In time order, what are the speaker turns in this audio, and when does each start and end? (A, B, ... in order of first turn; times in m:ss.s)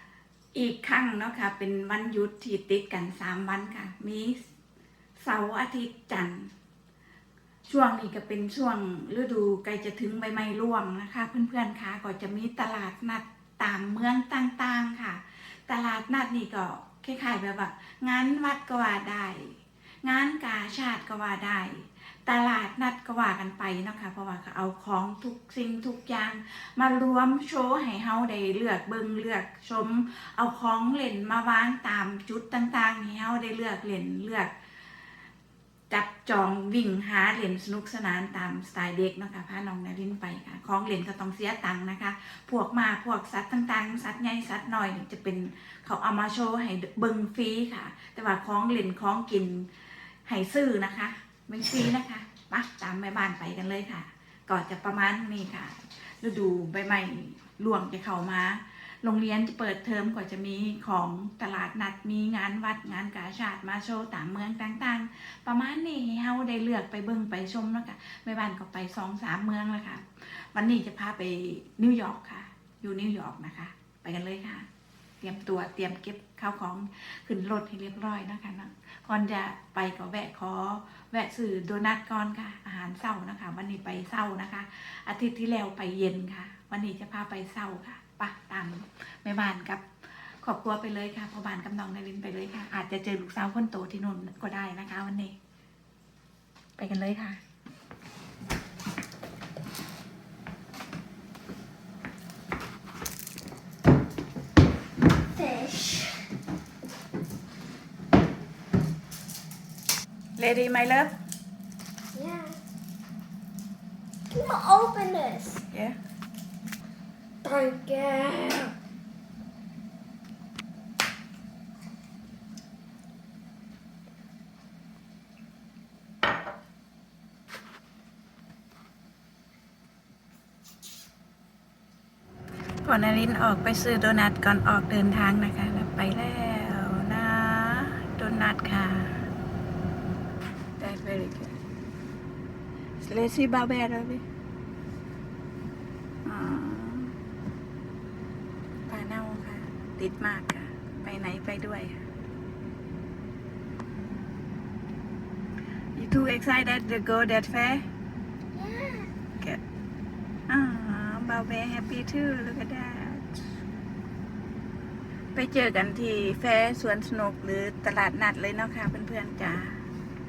0:00.5-0:04.4 A
0:05.2-0:06.5 A
0:07.7-0:34.5 A
0:35.9-1:14.6 A
1:15.2-1:35.4 A
1:36.8-1:37.4 A
1:45.4-1:46.2 B
1:50.4-1:51.1 A
1:52.1-1:52.6 B
1:54.3-1:55.6 B
1:55.7-1:56.0 A
1:57.4-1:58.7 B
2:12.8-2:19.2 A
2:20.8-2:21.5 A
2:23.0-2:24.2 A
2:26.2-2:27.1 A
2:28.9-2:32.0 A
2:35.9-2:37.8 A
2:38.6-2:39.1 B
2:40.5-2:43.4 A
2:45.3-2:49.8 A